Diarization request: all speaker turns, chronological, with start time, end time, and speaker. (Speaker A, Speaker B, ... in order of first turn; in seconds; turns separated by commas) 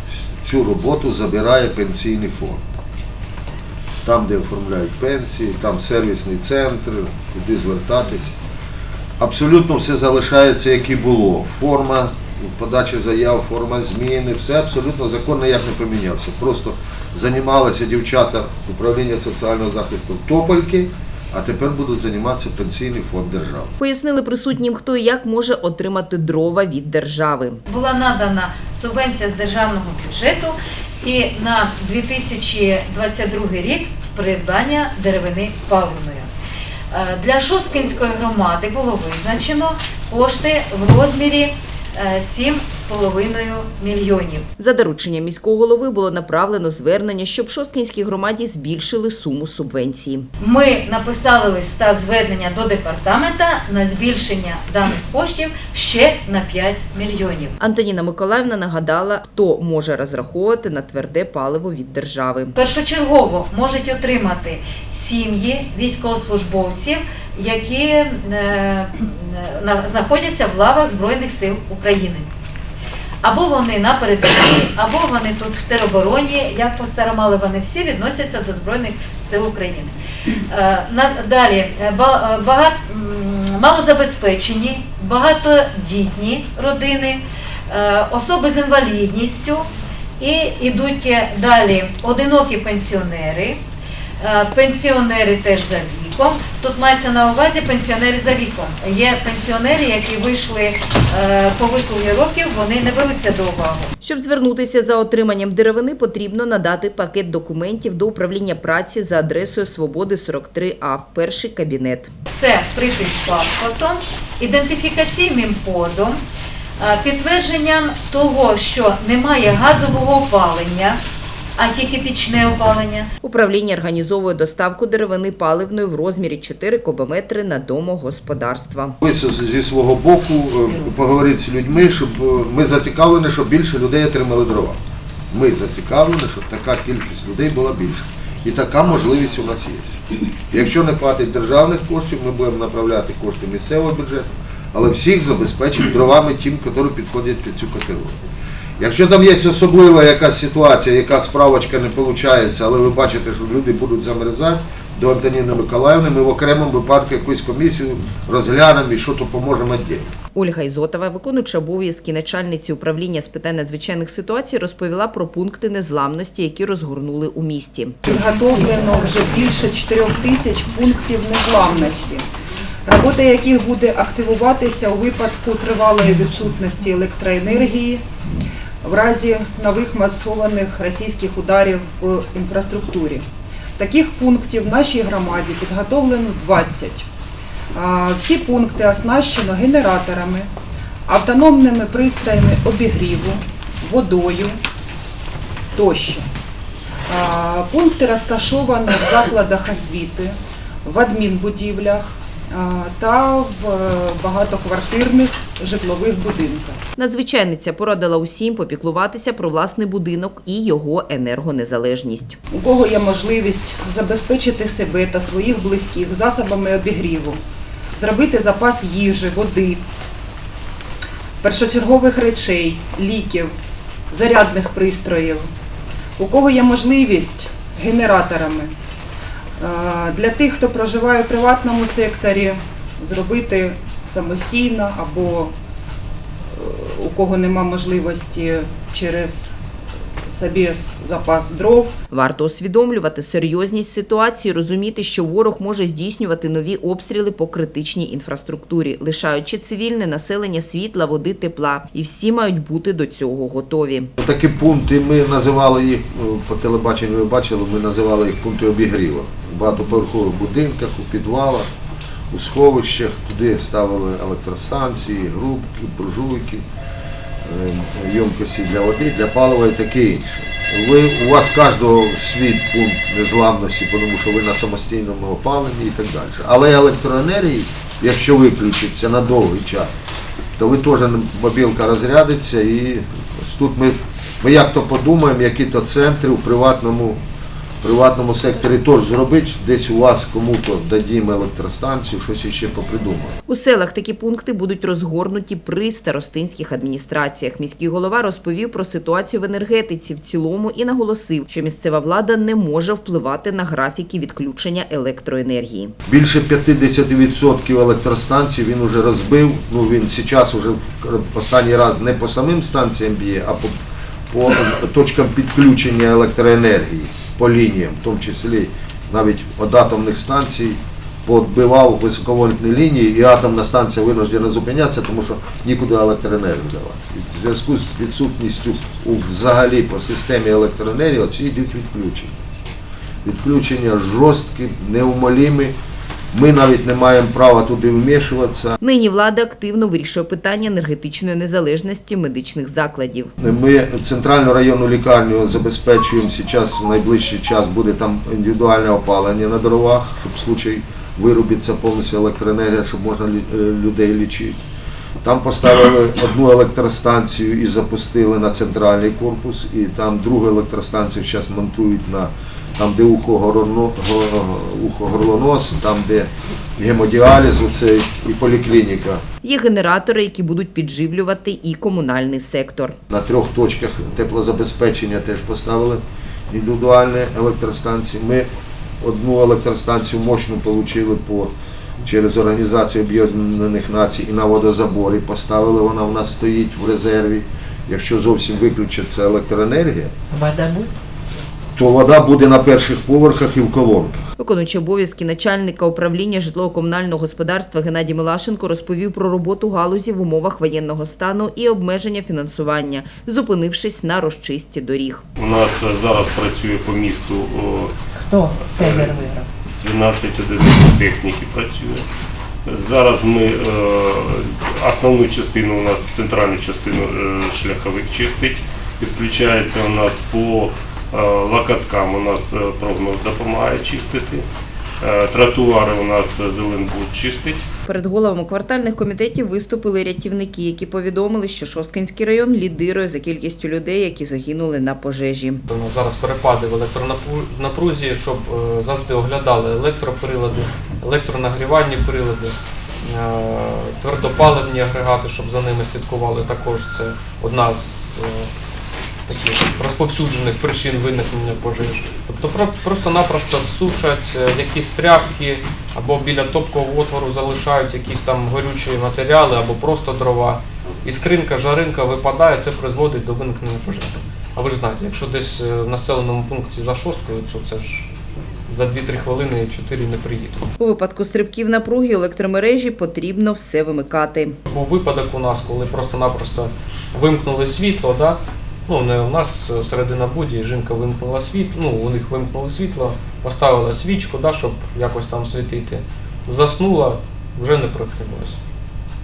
Speaker A: 0.4-2.6, Speaker A: 4.0-8.3, Speaker A: 9.2-23.7, Speaker B: 23.8-27.6, Speaker C: 27.6-36.3, Speaker C: 36.9-44.5, Speaker B: 44.6-50.3, Speaker C: 50.4-57.5, Speaker B: 57.6-62.5, Speaker C: 62.5-72.2, Speaker C: 73.2-79.9, Speaker C: 80.5-89.6, Speaker C: 90.2-93.6, Speaker C: 94.2-103.9, Speaker B: 104.0-112.1, Speaker C: 112.3-116.2, Speaker C: 116.8-121.0, Speaker C: 121.6-123.1, Speaker B: 123.2-129.0, Speaker A: 129.0-134.8, Speaker A: 135.3-140.0, Speaker A: 140.5-148.2, Speaker A: 148.8-160.1, Speaker B: 160.3-167.9, Speaker D: 168.1-172.2, Speaker D: 172.8-178.0, Speaker D: 178.8-183.2, Speaker D: 183.8-187.1, Speaker D: 187.7-190.5, Speaker D: 191.1-194.6, Speaker D: 195.7-196.3, Speaker D: 197.1-206.8, Speaker B: 207.0-212.4, Speaker D: 212.5-217.4, Speaker D: 217.9-219.8, Speaker D: 221.4-223.5, Speaker D: 224.1-225.5, Speaker D: 226.2-228.7, Speaker D: 229.6-235.5, Speaker D: 236.5-239.5, Speaker D: 240.3-241.9, Speaker B: 242.1-254.1, Speaker A: 254.2-261.7, Speaker A: 262.3-266.6, Speaker A: 267.4-280.0, Speaker A: 280.6-287.2, Speaker A: 287.8-293.3, Speaker B: 293.5-305.9, Speaker A: 306.1-313.7, Speaker A: 314.3-332.4, Speaker A: 333.2-335.7, Speaker A: 336.3-338.8, Speaker B: 338.8-343.3, Speaker A: 343.4-354.6, Speaker A: 355.2-369.2, Speaker B: 369.4-372.9, Speaker A: 373.1-378.5, Speaker A: 379.0-390.1, Speaker E: 390.3-390.9, Speaker A: 391.8-394.2, Speaker B: 394.4-405.2, Speaker F: 405.4-407.9, Speaker E: 408.1-409.5, Speaker F: 408.5-409.2, Speaker F: 409.8-412.0, Speaker F: 412.6-424.4, Speaker F: 425.0-427.6, Speaker B: 427.9-435.6, Speaker G: 435.6-448.5, Speaker G: 449.3-468.1, Speaker G: 468.7-470.7, Speaker B: 470.8-474.6, Speaker G: 474.6-488.6